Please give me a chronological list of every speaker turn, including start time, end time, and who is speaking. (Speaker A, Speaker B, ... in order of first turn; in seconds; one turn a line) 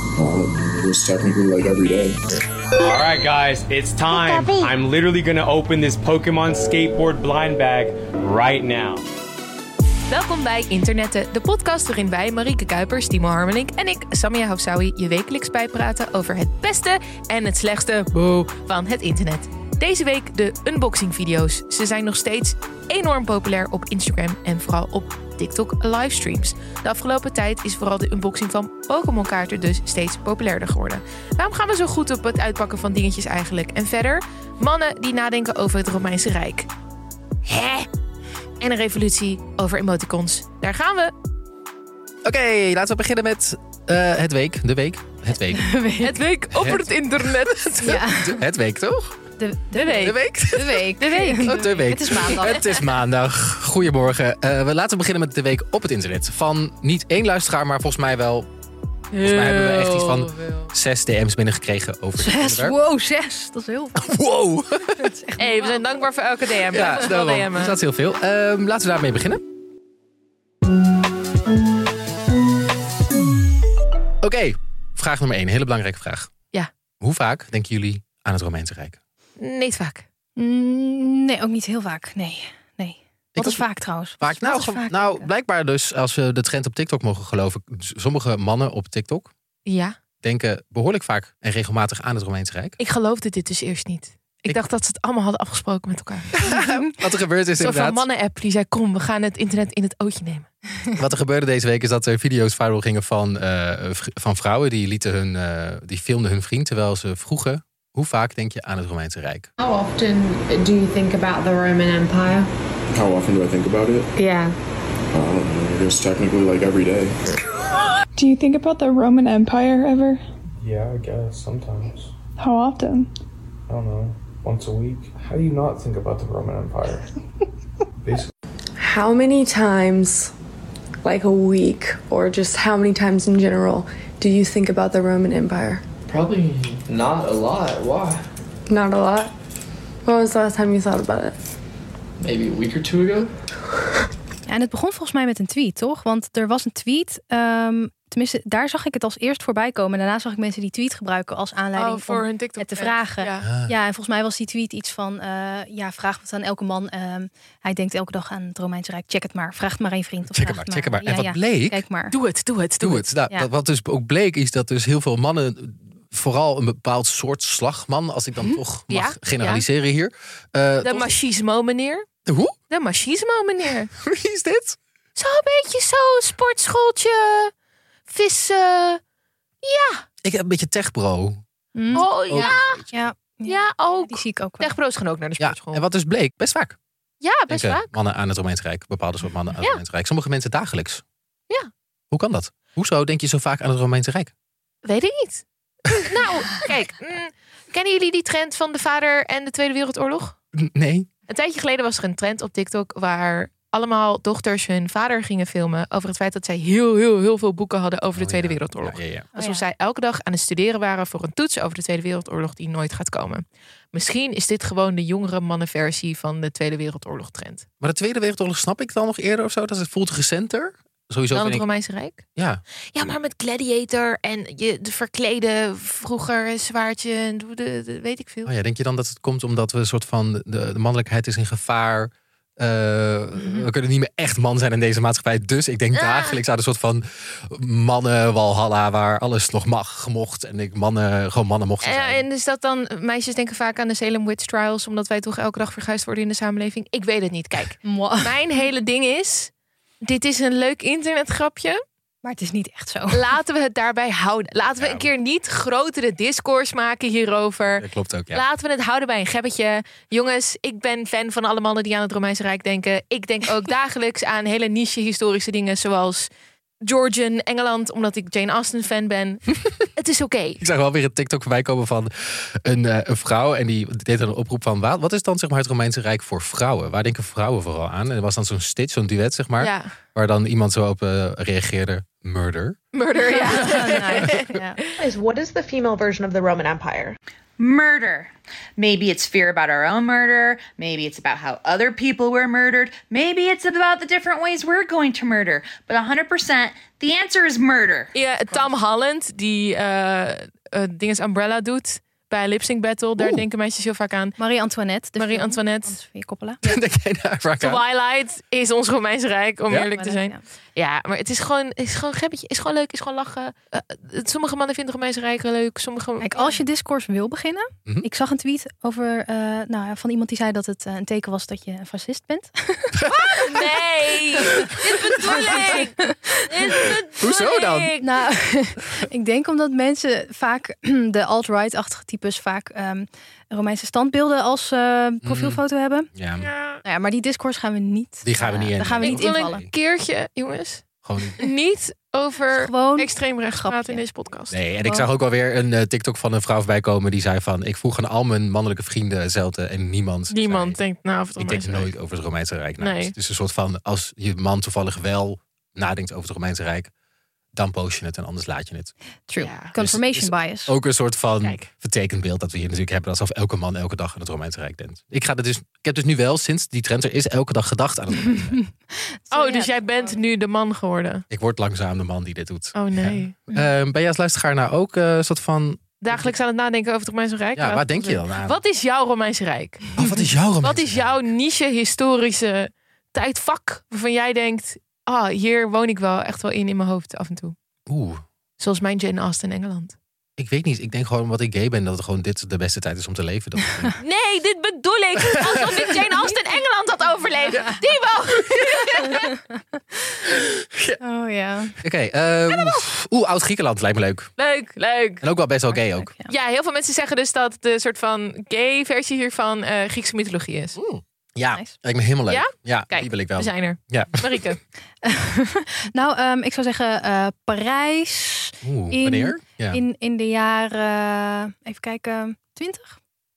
Speaker A: 0.2-2.2
Speaker B: 2.8-9.0
Speaker C: 4.2-4.7
Speaker D: 10.1-36.7
Speaker E: 18.1-18.5
Speaker D: 37.5-37.9
Speaker D: 38.6-41.1
Speaker E: 42.2-45.6
Speaker F: 45.5-46.1
Speaker D: 46.0-48.1
Speaker E: 46.6-49.1
Speaker F: 47.8-48.4
Speaker F: 49.4-52.8
Speaker D: 49.7-50.2
Speaker E: 49.9-58.5
Speaker D: 51.0-52.7
Speaker D: 59.1-60.7
Speaker E: 59.2-62.8
Speaker F: 62.2-64.1
Speaker E: 64.0-65.1
Speaker F: 65.0-65.7
Speaker D: 65.4-67.8
Speaker E: 66.7-69.4
Speaker E: 74.2-76.3
Speaker E: 77.0-79.0
Speaker D: 79.4-80.0
Speaker F: 80.4-85.3
Speaker E: 83.3-83.7
Speaker E: 84.2-89.3
Speaker D: 89.7-90.0
Speaker E: 90.2-92.8
Speaker D: 92.8-96.4
Speaker E: 96.4-98.0
Speaker F: 96.5-96.8
Speaker D: 97.6-100.5
Speaker E: 101.0-109.5
Speaker G: 109.6-112.5
Speaker A: 112.9-114.1
Speaker G: 114.2-114.5
Speaker A: 115.1-117.3
Speaker H: 118.2-120.2
Speaker I: 120.6-122.1
Speaker H: 122.4-123.1
Speaker I: 123.7-127.1
Speaker I: 128.0-128.3
Speaker J: 128.8-130.3
Speaker J: 131.0-135.8
Speaker K: 136.1-138.2
Speaker J: 138.7-139.3
Speaker J: 140.0-141.5
Speaker K: 142.2-143.3
Speaker F: 144.5-162.2
Speaker D: 151.8-153.5
Speaker E: 153.4-153.7
Speaker E: 160.3-161.8
Speaker D: 162.1-163.1
Speaker E: 162.8-171.1
Speaker D: 168.9-169.7
Speaker D: 170.8-172.1
Speaker E: 172.3-172.6
Speaker D: 172.7-173.9
Speaker E: 174.0-174.8
Speaker D: 175.2-177.5
Speaker D: 178.1-179.0
Speaker D: 179.6-180.0
Speaker E: 180.2-183.1
Speaker F: 181.8-184.8
Speaker D: 181.9-182.8
Speaker D: 183.5-185.8
Speaker E: 185.4-186.8
Speaker D: 187.2-187.9
Speaker E: 187.5-191.0
Speaker E: 192.1-194.3
Speaker D: 194.8-200.4
Speaker E: 200.6-201.1
Speaker D: 201.3-217.7
Speaker E: 208.1-209.3
Speaker F: 209.3-209.7
Speaker E: 217.8-221.6
Speaker D: 221.3-222.3
Speaker E: 222.4-222.6
Speaker D: 222.9-228.5
Speaker E: 228.4-242.2
Speaker D: 235.9-236.4
Speaker D: 241.8-249.5
Speaker F: 247.8-248.5
Speaker D: 250.0-251.8
Speaker F: 252.2-253.2
Speaker D: 253.1-266.3
Speaker E: 254.8-255.1
Speaker E: 257.7-258.4
Speaker D: 266.8-270.6
Speaker E: 270.6-282.8
Speaker D: 279.6-279.9
Speaker D: 282.9-284.6
Speaker F: 283.3-284.8
Speaker L: 285.0-287.2
Speaker C: 287.6-298.1
Speaker D: 298.1-304.4
Speaker E: 303.2-303.5
Speaker F: 304.4-306.6
Speaker D: 305.2-306.0
Speaker E: 306.6-307.8
Speaker D: 307.6-316.6
Speaker F: 310.0-310.4
Speaker F: 316.2-323.1
Speaker D: 323.1-328.1
Speaker F: 324.7-326.3
Speaker E: 327.2-327.9
Speaker F: 328.0-336.1
Speaker E: 335.2-335.6
Speaker E: 336.1-336.5
Speaker D: 336.4-336.8
Speaker F: 336.8-339.6
Speaker E: 338.2-339.7
Speaker D: 339.0-340.9
Speaker E: 341.1-341.4
Speaker D: 341.4-344.6
Speaker F: 342.5-344.0
Speaker E: 344.5-350.8
Speaker D: 350.3-351.9
Speaker E: 351.4-356.9
Speaker D: 352.8-353.1
Speaker E: 357.5-358.9
Speaker F: 359.3-360.7
Speaker D: 359.4-359.7
Speaker E: 359.7-368.6
Speaker D: 361.4-361.7
Speaker F: 368.3-370.2
Speaker D: 369.3-371.2
Speaker E: 371.3-376.4
Speaker D: 372.7-373.4
Speaker D: 376.0-380.0
Speaker E: 377.6-378.6
Speaker E: 380.0-381.2
Speaker D: 380.6-387.6
Speaker E: 387.9-388.2
Speaker D: 388.6-390.0
Speaker E: 390.4-394.0
Speaker D: 394.0-399.3
Speaker E: 395.2-395.9
Speaker F: 399.1-400.4
Speaker F: 401.0-401.8
Speaker E: 401.8-404.3
Speaker D: 402.5-402.8
Speaker D: 404.4-405.2
Speaker E: 405.2-406.1
Speaker F: 405.7-406.3
Speaker D: 406.3-410.8
Speaker E: 410.8-414.5
Speaker D: 412.3-414.6
Speaker F: 415.0-423.0
Speaker E: 418.6-419.8